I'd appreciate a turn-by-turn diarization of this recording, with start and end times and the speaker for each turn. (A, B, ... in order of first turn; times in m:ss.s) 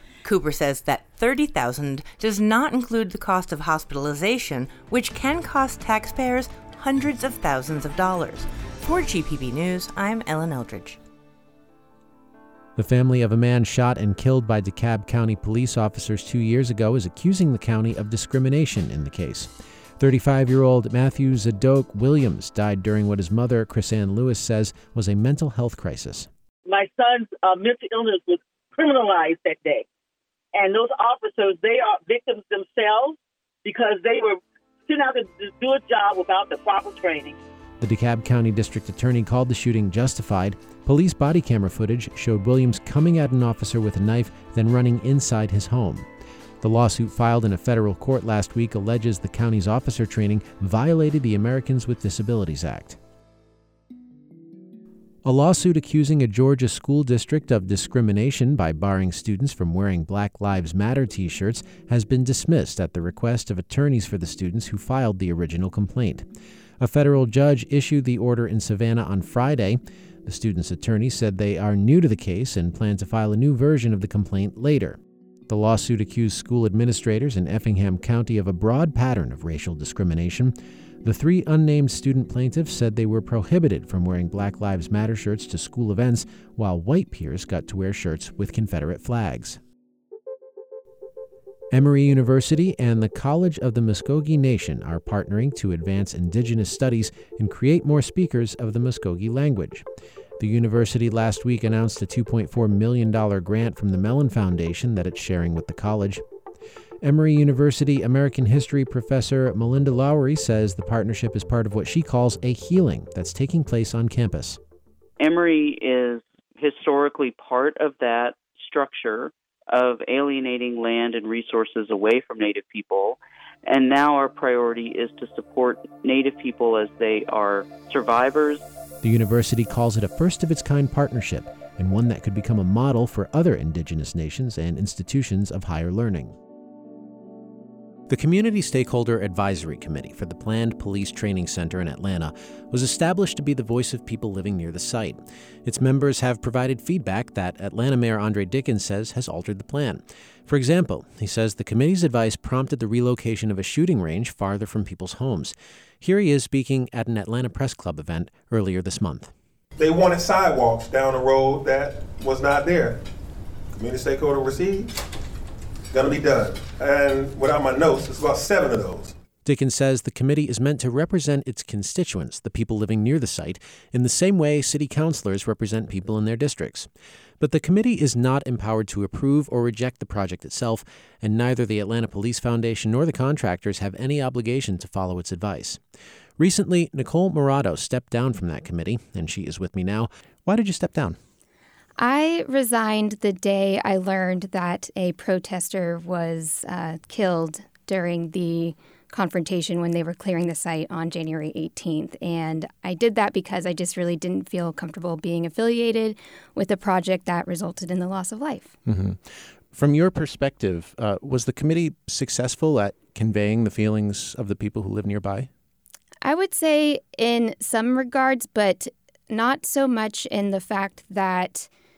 0:00.2-0:11.0 A
0:12.8-0:26.3 B
0:26.7-0:29.9 C
0:30.5-0:37.4 C
0:37.8-0:46.1 B
0:46.6-0:53.0 B
0:55.2-1:06.3 B
1:06.8-1:15.0 B
1:15.5-1:29.6 B
1:31.7-1:39.8 B
1:40.4-1:46.2 B
1:47.0-1:54.6 B
1:55.2-2:08.6 D
2:09.0-2:16.4 B
2:18.1-2:39.3 B
2:39.8-2:43.0 E
2:43.7-2:45.0 E
2:45.9-2:49.1 E
2:49.4-2:56.9 B
2:57.4-3:05.8 B
3:06.4-3:11.2 B
3:12.0-3:28.8 F
3:28.9-3:35.5 B
3:36.2-3:41.7 F